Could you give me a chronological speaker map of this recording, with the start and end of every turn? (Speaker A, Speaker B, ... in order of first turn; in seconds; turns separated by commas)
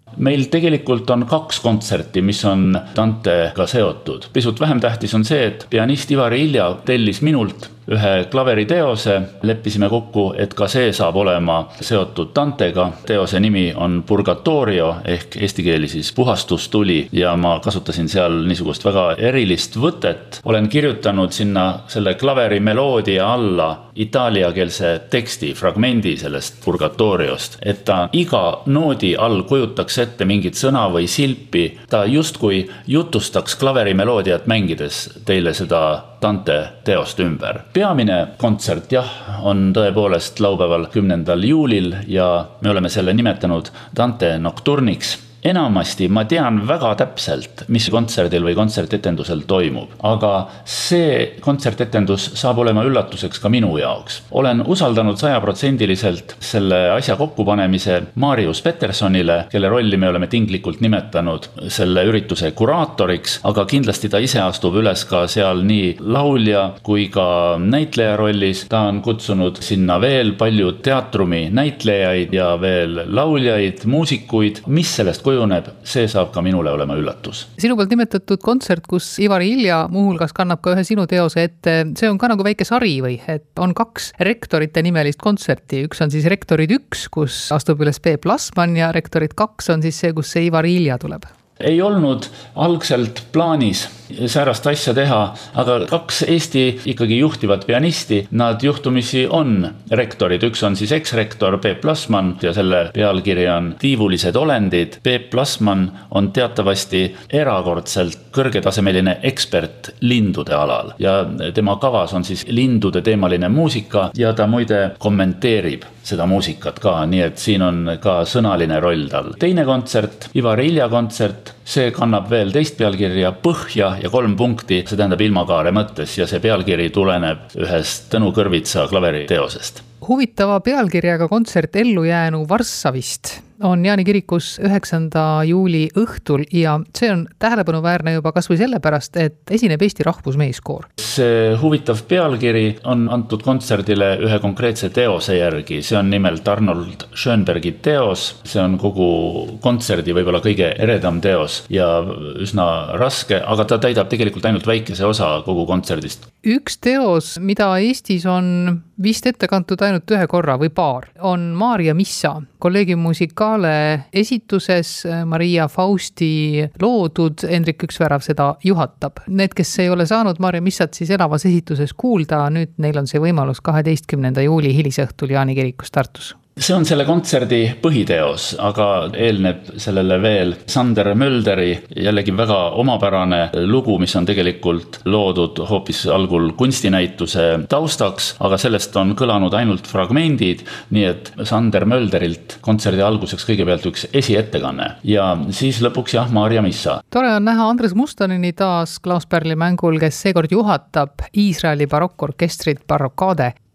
Speaker A: 0.1-77.5, Speaker B: 77.6-91.3, Speaker A: 91.6-129.8, Speaker B: 130.0-140.9, Speaker A: 141.0-156.3, Speaker B: 156.4-176.4, Speaker A: 176.6-197.0, Speaker B: 197.1-203.5